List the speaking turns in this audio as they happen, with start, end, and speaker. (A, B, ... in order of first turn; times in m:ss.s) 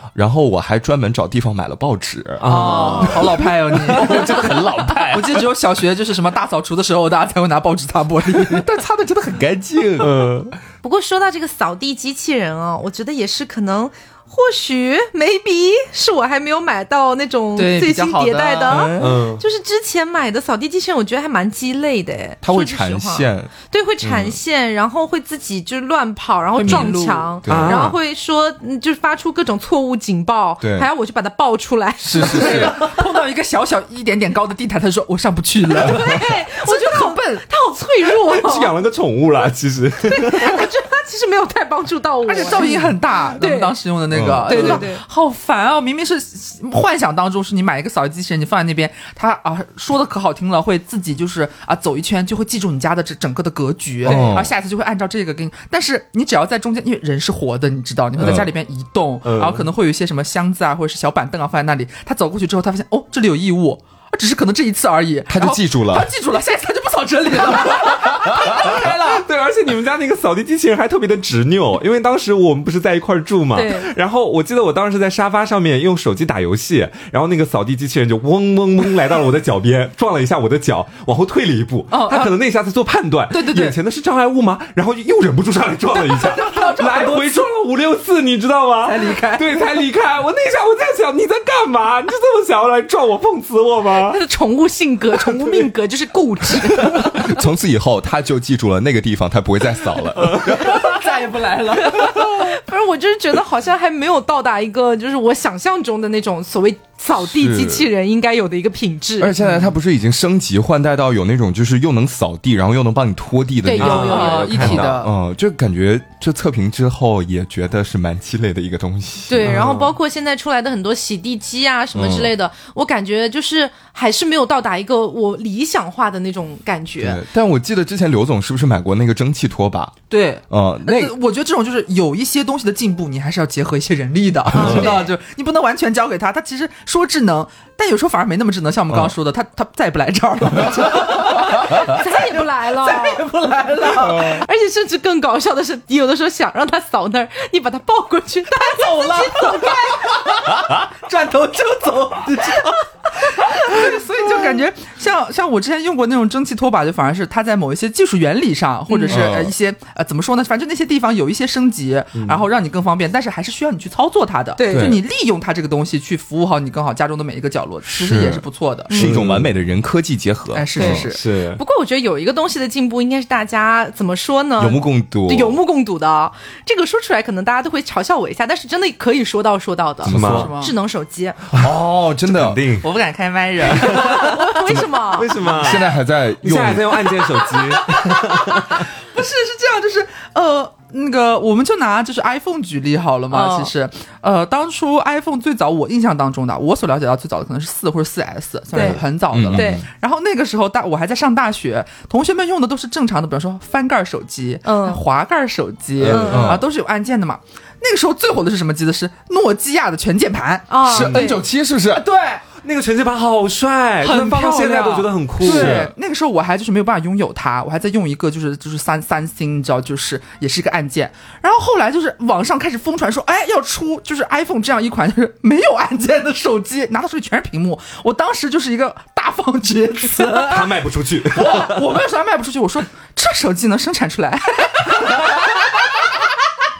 0:00.2-0:05.5 A
0:02.4-0:04.2 B
0:02.4-0:08.7 C
0:08.3-0:10.1 A
0:10.0-0:10.5 B
0:10.8-0:32.9 D
0:17.6-0:18.9 C
0:18.7-0:19.3 A
0:19.0-0:19.4 B
0:22.4-0:23.5 A
0:24.0-0:24.4 B
0:26.6-0:27.4 C
0:26.6-0:26.9 A
0:27.4-0:27.8 A
0:27.5-0:28.0 B
0:30.6-0:30.9 A
0:32.0-0:32.8 A
0:32.2-0:37.2 C
0:35.8-0:38.7 D
0:38.1-0:40.7 B
0:40.0-0:43.8 D
0:42.2-1:09.2 C
0:44.1-0:44.8 A
0:44.4-0:45.0 D
0:54.0-0:54.5 A
0:58.2-0:58.5 A
0:59.2-0:59.7 B
1:05.3-1:06.1 A
1:08.2-1:08.6 A
1:08.4-1:34.2 B
1:13.6-1:13.9 D
1:21.9-1:22.3 C
1:23.3-1:23.8 C
1:25.9-1:27.5 C
1:28.8-1:29.7 C
1:34.1-1:37.4 D
1:36.8-1:41.0 A
1:40.4-1:42.5 C
1:41.9-1:49.3 D
1:47.2-1:47.9 A
1:49.2-1:59.6 A
1:49.4-1:49.7 C
1:53.6-1:54.6 D
1:53.8-1:55.0 B
1:53.9-1:55.1 C
1:59.3-2:07.2 D
1:59.4-1:59.9 B
2:07.0-2:10.0 A
2:10.1-2:24.5 C
2:10.5-2:11.2 A
2:14.5-2:15.0 A
2:14.6-2:15.0 D
2:18.9-2:19.2 A
2:21.6-2:23.3 D
2:24.0-2:30.2 D
2:28.6-2:49.0 C
2:38.9-2:39.3 D
2:39.1-2:39.6 A
2:42.2-2:42.4 B
2:44.6-2:45.0 D
2:44.7-2:45.0 A
2:47.9-2:51.0 A
2:48.9-2:49.5 B
2:50.5-2:51.2 C
2:50.8-3:01.4 D
2:50.8-2:51.6 B
2:54.6-2:55.6 A
3:00.0-3:00.5 A
3:00.1-3:00.5 B
3:00.2-3:00.8 C
3:01.5-3:02.9 B
3:01.5-3:02.6 A
3:02.8-3:04.6 C
3:03.6-3:04.4 B
3:03.8-3:05.3 D
3:05.1-3:08.9 B
3:05.4-3:07.1 A
3:05.5-3:05.8 C
3:07.0-3:31.4 C
3:13.3-3:13.7 D
3:18.7-3:19.8 D
3:19.3-3:19.8 A
3:24.6-3:25.0 D
3:26.0-3:26.7 A
3:26.1-3:26.6 D
3:30.7-3:31.4 D
3:30.9-3:32.0 A
3:31.9-3:32.4 C
3:32.6-3:35.9 B
3:34.0-3:56.3 C
3:35.4-3:35.9 A
3:50.3-3:52.0 B